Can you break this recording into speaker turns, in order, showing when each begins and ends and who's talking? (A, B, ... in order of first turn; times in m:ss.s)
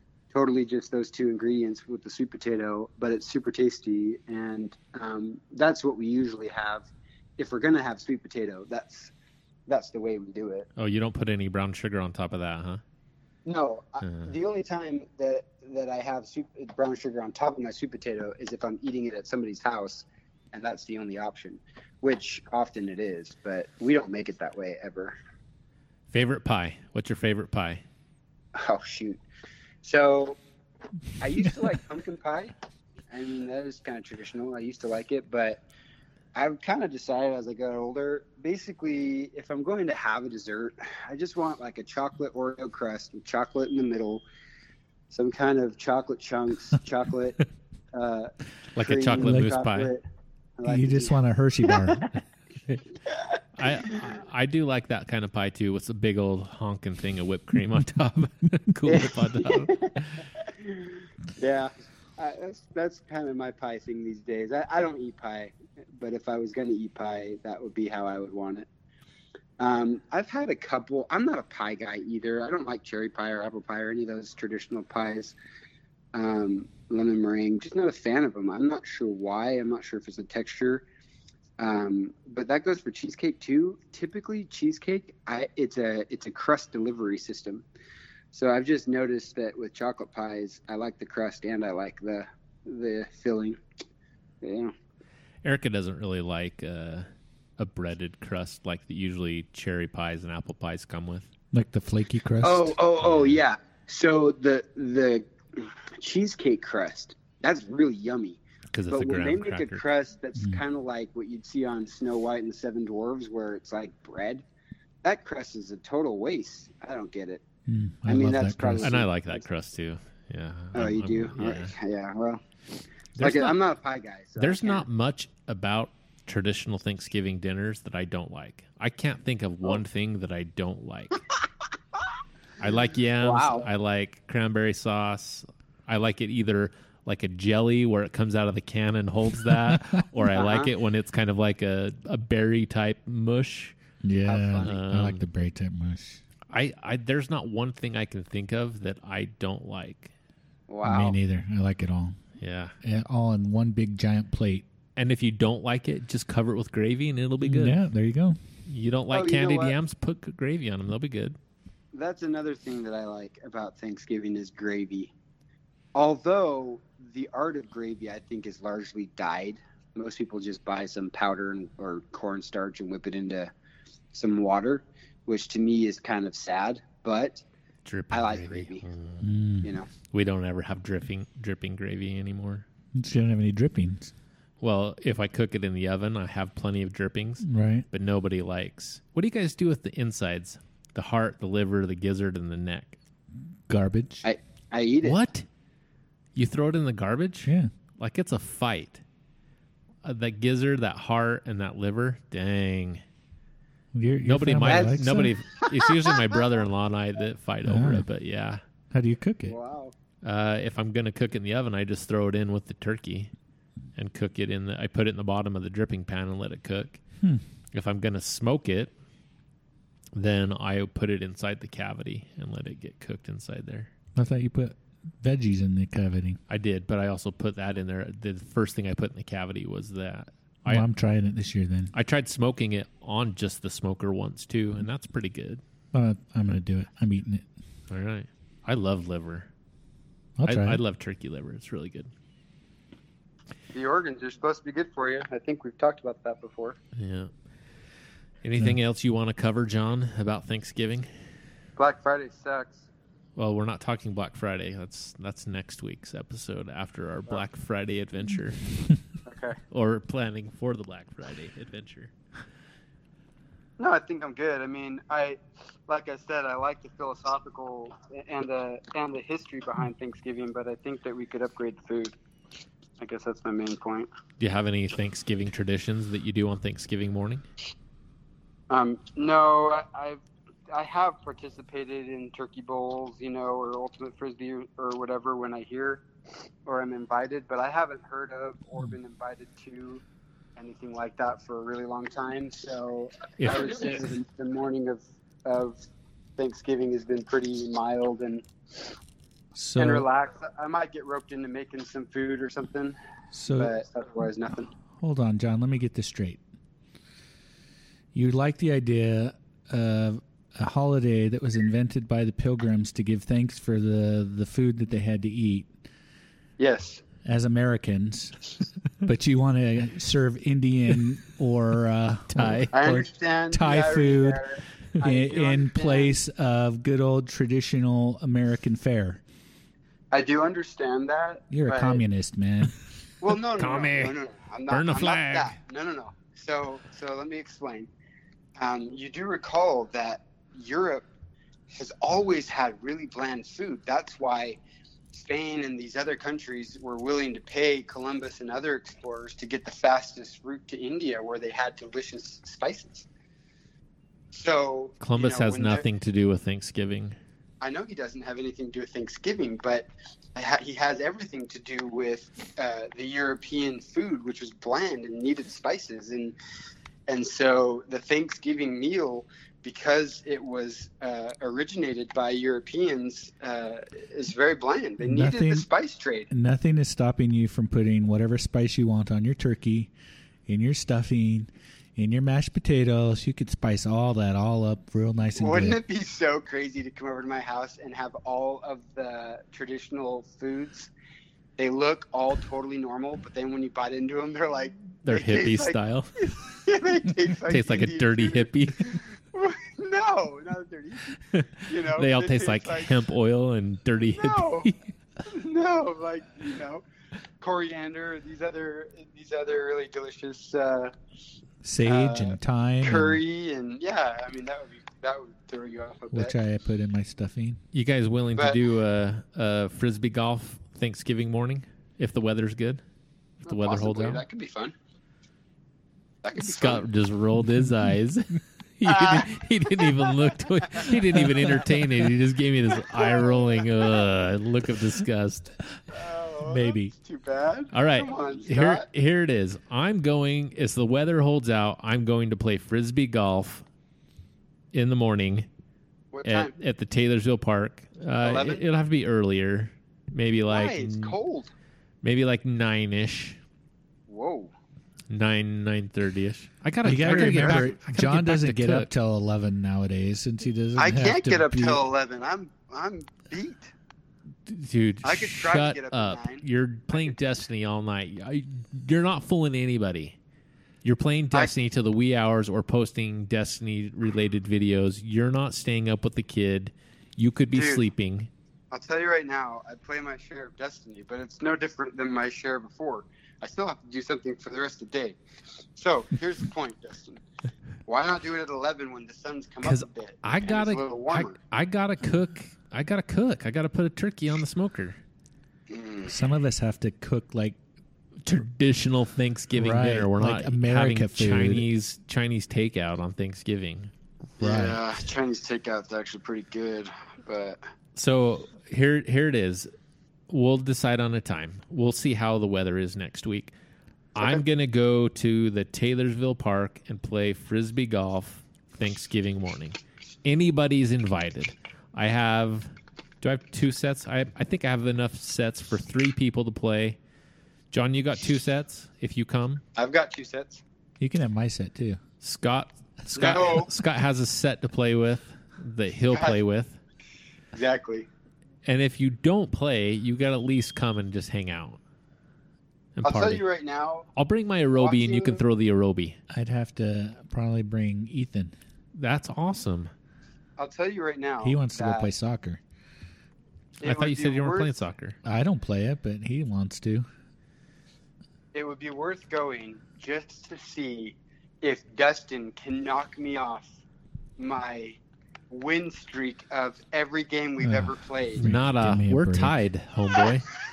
0:00.3-0:09.1 A
0:09.7-0:10.7 A
0:10.8-0:12.8 B
0:13.4-0:25.1 A
0:14.0-0:14.3 B
0:26.1-0:27.8 B
0:28.5-0:29.2 A
0:29.8-0:30.4 A
0:31.2-0:32.5 A
0:33.1-0:35.6 A
0:36.3-0:44.2 A
0:45.1-0:47.4 A
0:47.9-0:50.0 A
0:48.8-0:49.9 B
0:49.2-0:49.5 C
0:50.6-0:52.1 A
0:50.6-0:52.1 C
0:53.1-0:54.1 A
0:53.6-1:00.2 B
0:58.8-1:08.7 A
1:09.6-1:15.3 A
1:16.1-1:20.8 A
1:21.6-1:27.6 A
1:28.3-1:33.6 A
1:34.4-1:34.7 A
1:35.4-1:37.1 B
1:37.6-1:41.3 B
1:41.5-1:42.8 C
1:42.4-1:54.4 A
1:48.7-1:49.8 B
1:50.4-1:50.6 C
1:55.0-1:57.4 A
1:57.7-1:58.9 C
1:58.1-1:59.4 A
1:58.8-2:01.7 B
2:00.7-2:02.4 A
2:03.2-2:03.6 B
2:03.2-2:04.8 A
2:04.4-2:11.2 B
2:12.6-2:23.8 B
2:13.2-2:13.7 A
2:19.5-2:19.8 C
2:20.2-2:20.7 A
2:24.0-2:26.2 C
2:24.2-2:24.7 A
2:24.6-2:25.2 B
2:26.5-2:30.1 B
2:30.7-2:31.2 A
2:30.8-2:32.2 C
2:32.4-2:32.7 B
2:32.8-2:34.6 C
2:35.0-2:37.8 B
2:37.4-2:38.4 C
2:38.6-2:41.4 B
2:39.1-2:39.8 A
2:41.9-2:45.1 A
2:45.9-2:53.5 A
2:54.1-2:57.4 A
2:57.8-2:59.3 B
2:58.1-2:58.8 A
2:59.2-2:59.7 C
2:59.6-2:59.9 A
3:00.1-3:02.6 B
3:02.9-3:04.1 C
3:04.6-3:13.0 B
3:07.4-3:07.8 C
3:13.7-3:14.2 C
3:14.2-3:15.2 A
3:15.0-3:15.4 B
3:16.3-3:19.0 B
3:17.4-3:17.7 C
3:20.0-3:23.0 B
3:23.9-3:25.3 C
3:24.2-3:28.6 B
3:24.6-3:25.0 A
3:25.8-3:26.2 A
3:27.6-3:28.1 C
3:28.9-3:29.5 C
3:29.4-3:29.9 A
3:30.2-3:33.3 B
3:34.0-3:37.0 B
3:37.7-3:38.9 B
3:40.1-3:43.9 B
3:44.1-3:46.4 C
3:46.5-3:50.8 B
3:50.6-3:51.9 C
3:51.9-3:55.6 B
3:55.9-3:57.4 C
3:57.9-3:59.5 B
4:00.4-4:00.8 C
4:00.4-4:02.1 B
4:03.7-4:06.8 A
4:07.0-4:07.3 B
4:08.4-4:11.1 B
4:11.8-4:12.8 A
4:13.4-4:18.6 B
4:19.2-4:19.6 A
4:19.7-4:22.1 B
4:23.8-4:32.1 A
4:33.0-4:34.1 A
4:34.4-4:37.4 B
4:38.7-4:46.0 A
4:46.6-4:50.0 A
4:50.6-4:55.8 A
4:53.4-4:54.0 B
4:56.4-4:58.9 A
4:59.5-5:00.0 C
4:59.8-5:03.0 A
5:03.3-5:03.8 C
5:03.5-5:04.7 A
5:05.0-5:06.4 C
5:08.1-5:15.7 C
5:16.6-5:17.0 A
5:17.2-5:18.4 C
5:19.0-5:24.4 C
5:22.3-5:22.7 B
5:22.7-5:26.2 A
5:25.0-5:29.2 C
5:30.1-5:32.0 A
5:31.5-5:32.8 C
5:33.2-5:37.9 A
5:33.6-5:34.2 B
5:34.7-5:35.6 B
5:38.6-5:41.0 A
5:41.7-5:44.6 A
5:45.1-5:53.1 A
5:54.3-5:55.8 A
5:55.0-5:57.2 B
5:57.6-6:06.4 A
6:07.1-6:16.3 A
6:15.0-6:15.7 C
6:16.3-6:19.9 C
6:20.4-6:25.8 C
6:25.4-6:30.9 A
6:31.6-6:43.0 A
6:35.0-6:36.3 B
6:37.4-6:39.0 B
6:41.3-6:44.7 B
6:44.1-6:44.7 A
6:45.2-6:46.8 A
6:47.4-6:50.9 A
6:51.6-6:53.2 C
6:51.8-6:56.3 A
6:56.1-6:57.6 C
6:57.7-7:02.8 B
6:58.3-6:58.6 A
7:03.4-7:04.7 A
7:03.4-7:04.2 B
7:06.2-7:06.8 A
7:06.4-7:15.5 B
7:08.9-7:09.3 A
7:12.8-7:13.9 A
7:15.9-7:18.8 A
7:16.4-7:16.9 C
7:17.7-7:23.6 B
7:24.7-7:25.5 B
7:26.1-7:26.5 A
7:26.2-7:31.2 B
7:28.2-7:28.6 A
7:30.5-7:31.5 A
7:32.0-7:33.4 B
7:34.1-7:34.5 A
7:35.1-7:38.9 B
7:36.8-7:41.8 C
7:37.0-7:37.8 A
7:40.8-7:43.7 A
7:44.4-7:50.2 B
7:45.0-7:47.2 A
7:50.8-7:58.3 B
7:57.5-7:57.8 A
7:58.7-8:05.2 A
8:05.7-8:07.2 A
8:07.8-8:11.4 A
8:09.6-8:15.0 B
8:15.7-8:16.1 A
8:16.1-8:17.6 C
8:18.2-8:23.9 B
8:19.5-8:21.7 C
8:24.4-8:27.6 A
8:24.4-8:24.8 C
8:27.9-8:29.7 B
8:30.3-8:33.5 B
8:34.1-8:47.0 B
8:34.2-8:34.4 A
8:47.7-8:49.6 B
8:49.8-8:50.6 A
8:51.0-8:52.0 C
8:52.2-8:56.8 B
8:53.1-8:53.7 A
8:56.1-8:56.4 A
8:57.5-8:58.1 A
8:58.6-9:01.8 B
9:03.0-9:03.4 B
9:03.0-9:04.1 A
9:04.2-9:06.2 B
9:04.8-9:05.4 A
9:06.3-9:08.5 C
9:08.9-9:09.9 B
9:10.6-9:12.1 A
9:11.4-9:12.6 C
9:13.8-9:14.8 A
9:13.8-9:15.2 B
9:15.2-9:17.0 C
9:18.5-9:23.8 A
9:24.4-9:25.0 A
9:25.5-9:28.5 A
9:27.6-9:29.6 C
9:28.4-9:30.5 B